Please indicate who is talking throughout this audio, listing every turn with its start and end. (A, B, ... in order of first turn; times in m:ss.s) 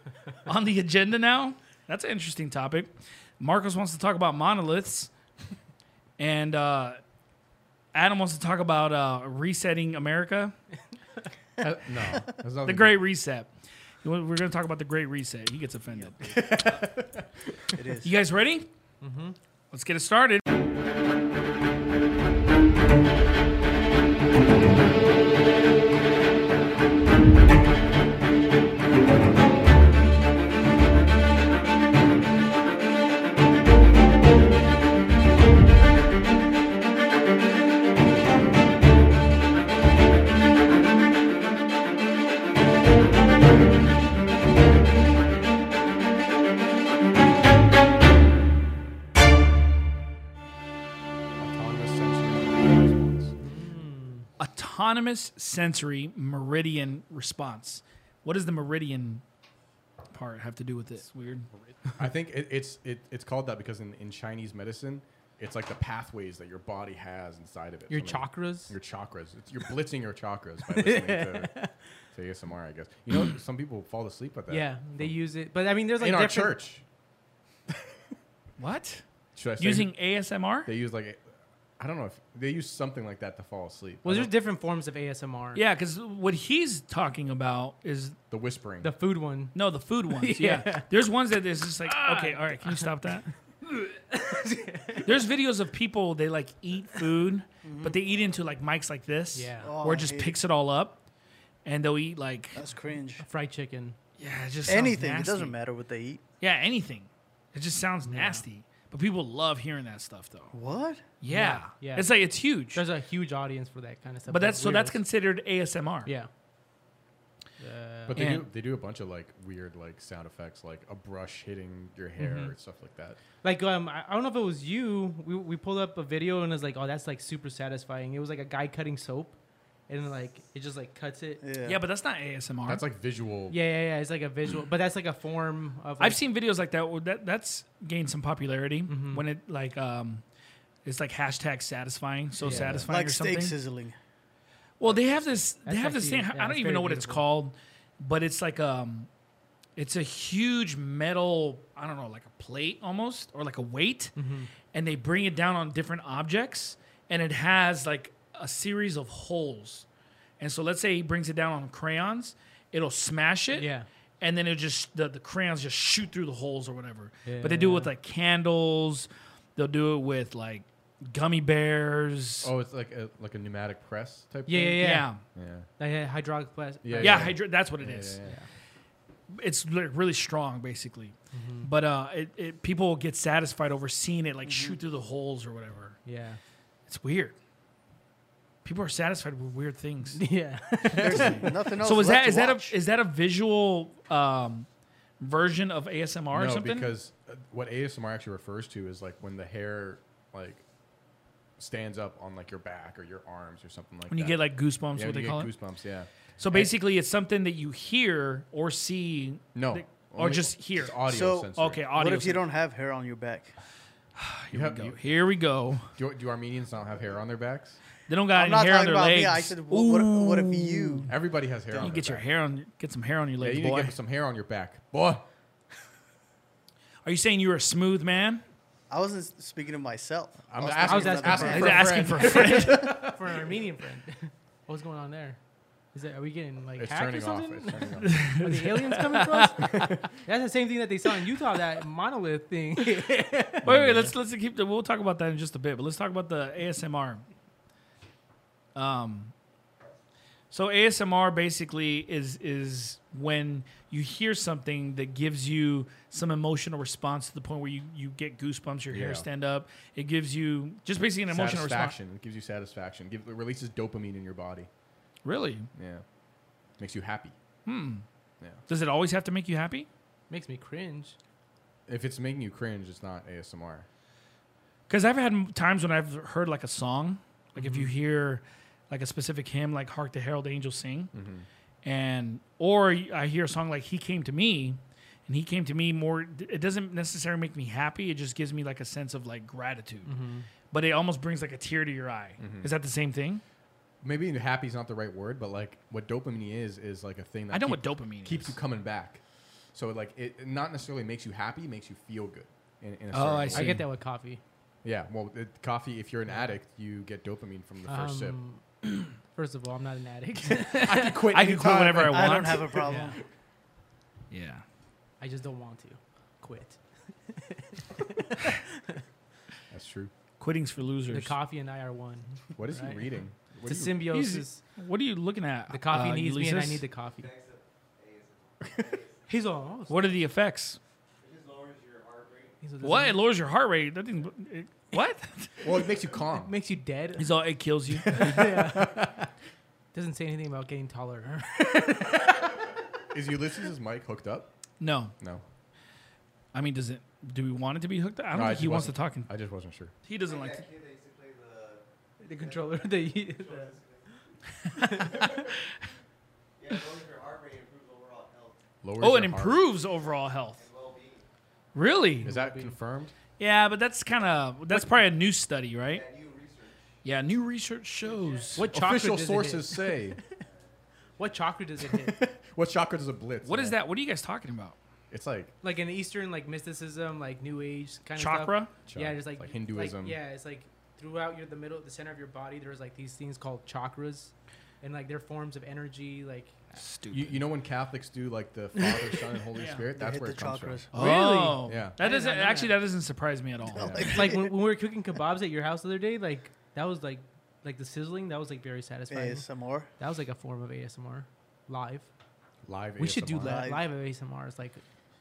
0:00.4-0:05.1 A
0:06.2-0:07.0 A
0:07.9-0:10.5 A
0:11.6-0:13.0 B
0:12.6-0:16.3 A
0:16.2-0:17.8 B
0:17.7-0:18.1 C
0:18.0-0:18.7 A
0:19.0-0:19.4 D
0:19.7-0:20.4 A
0:51.4-0:53.3 B
0:53.4-0:54.3 D
0:54.4-0:59.2 A
1:00.1-1:01.5 A
1:01.8-1:11.5 B
1:07.9-1:08.7 D
1:10.7-1:11.7 D
1:12.1-1:15.1 B
1:14.5-1:16.6 D
1:16.0-1:16.8 B
1:17.7-1:18.0 B
1:18.6-1:19.0 A
1:19.4-1:19.9 B
1:19.6-1:20.7 A
1:20.6-1:24.3 B
1:24.0-1:25.6 D
1:25.5-1:28.2 A
1:28.3-1:28.9 B
1:28.8-1:31.0 D
1:29.5-1:33.3 A
1:31.8-1:35.3 D
1:35.0-1:41.0 A
1:37.6-1:38.0 C
1:39.3-1:39.7 D
1:39.6-1:40.4 C
1:41.6-1:42.6 A
1:42.5-1:43.2 C
1:43.2-1:44.0 D
1:44.2-1:45.6 A
1:44.6-1:46.2 C
1:46.4-1:50.5 A
1:48.0-1:48.4 D
1:50.5-1:51.0 C
1:51.2-1:52.8 A
1:51.3-1:55.0 D
1:54.3-1:56.1 A
1:57.6-1:58.3 D
1:58.1-2:03.2 B
1:58.2-1:58.5 A
2:02.2-2:02.5 D
2:03.4-2:09.4 D
2:09.9-2:11.4 D
2:11.4-2:11.8 C
2:11.6-2:12.8 A
2:12.6-2:13.6 B
2:13.5-2:16.2 D
2:16.0-2:20.2 A
2:18.9-2:19.2 D
2:20.8-2:23.6 A
2:22.4-2:22.8 D
2:22.4-2:22.9 B
2:22.9-2:24.0 C
2:24.8-2:29.1 A
2:24.8-2:25.4 B
2:25.6-2:27.2 D
2:29.8-2:39.8 A
2:34.2-2:34.5 D
2:40.4-2:43.7 A
2:43.5-2:43.9 D
2:44.2-2:52.5 A
2:47.2-2:47.9 D
2:52.4-2:54.8 B
2:54.5-2:55.1 D
2:54.8-2:55.2 A
2:55.3-2:55.7 B
2:55.8-2:57.4 D
2:56.8-2:58.4 B
2:57.0-2:58.2 A
2:59.3-3:06.0 A
3:01.3-3:01.7 D
3:04.4-3:04.8 C
3:06.0-3:06.4 D
3:06.9-3:07.3 A
3:08.6-3:10.2 A
3:10.2-3:11.6 D
3:10.9-3:12.7 C
3:11.0-3:14.7 A
3:15.2-3:16.9 A
3:16.3-3:20.6 B
3:21.6-3:26.8 B
3:24.1-3:25.5 A
3:26.4-3:32.4 A
3:29.5-3:31.8 B
3:31.1-3:33.5 C
3:34.2-3:35.9 A
3:34.5-3:35.0 B
3:35.9-3:37.8 B
3:38.1-3:41.2 A
3:38.3-3:41.1 C
3:41.1-3:42.2 B
3:41.7-3:42.2 C
3:41.8-3:43.9 A
3:43.4-3:45.2 B
3:47.0-3:48.4 A
3:48.9-3:52.0 C
3:50.5-3:53.4 B
3:50.7-3:55.4 D
3:51.3-3:52.9 A
3:55.9-4:03.7 D
3:56.8-3:58.2 B
3:58.0-3:59.9 A
3:59.7-4:00.0 B
4:03.6-4:04.1 B
4:03.6-4:07.2 A
4:08.7-4:09.3 A
4:10.5-4:21.9 A
4:18.9-4:19.3 B
4:21.3-4:24.7 B
4:25.2-4:25.7 A
4:25.7-4:26.0 B
4:26.8-4:27.3 B
4:27.6-4:28.0 A
4:28.7-4:29.9 A
4:30.3-4:31.2 D
4:31.9-4:33.8 B
4:34.9-4:41.1 A
4:37.5-4:37.9 D
4:41.1-4:41.4 B
4:41.8-4:50.1 A
4:50.0-4:50.5 D
4:50.7-4:53.4 A
4:52.4-4:52.7 B
4:54.0-4:59.2 B
4:57.5-4:58.6 A
4:59.7-5:03.8 B
5:03.1-5:03.8 A
5:03.5-5:04.4 D
5:04.8-5:08.4 B
5:07.9-5:11.3 D
5:10.5-5:13.2 B
5:11.1-5:12.9 A
5:12.0-5:13.2 C
5:12.9-5:13.1 D
5:14.3-5:14.6 A
5:15.2-5:19.0 D
5:19.7-5:20.1 B
5:20.4-5:21.3 A
5:21.1-5:23.0 D
5:22.6-5:24.1 B
5:23.6-5:24.6 D
5:24.1-5:26.8 A
5:25.7-5:27.3 D
5:27.1-5:30.0 E
5:29.3-5:29.9 D
5:29.9-5:30.8 A
5:31.2-5:32.6 E
5:32.6-5:33.2 D
5:32.8-5:35.6 A
5:35.6-5:36.5 B
5:36.1-5:37.4 D
5:37.2-5:38.4 A
5:38.0-5:39.1 B
5:38.1-5:39.3 D
5:39.9-5:42.6 D
5:43.1-5:44.5 B
5:44.8-5:45.1 A
5:46.5-5:49.3 A
5:48.3-5:49.9 B
5:50.0-5:50.6 A
5:50.2-5:54.2 E
5:52.2-5:53.7 D
5:54.6-5:55.0 A
5:54.7-5:55.5 D
5:54.9-5:55.4 E
5:56.6-5:58.6 E
5:58.8-5:59.7 B
5:59.0-6:00.6 A
6:00.6-6:01.3 E
6:01.7-6:02.3 A
6:02.2-6:02.8 D
6:02.2-6:03.1 B
6:03.4-6:06.0 A
6:05.8-6:07.0 E
6:07.0-6:08.7 A
6:08.0-6:08.6 E
6:08.6-6:10.4 D
6:08.7-6:10.2 B
6:10.4-6:11.3 E
6:11.2-6:12.2 D
6:11.8-6:13.8 B
6:13.4-6:14.8 A
6:15.1-6:15.5 B
6:15.6-6:26.8 D
6:18.2-6:18.7 A
6:18.8-6:20.2 B
6:26.8-6:27.4 A
6:27.1-6:32.0 B
6:28.8-6:29.2 D
6:29.5-6:29.8 A
6:30.0-6:31.0 C
6:30.9-6:34.2 A
6:30.9-6:32.9 D
6:33.7-6:34.5 C
6:33.7-6:34.1 B
6:34.0-6:39.5 D
6:39.1-6:39.9 C
6:40.0-6:42.1 D
6:42.6-6:43.7 B
6:43.0-6:44.8 D
6:43.4-6:43.8 C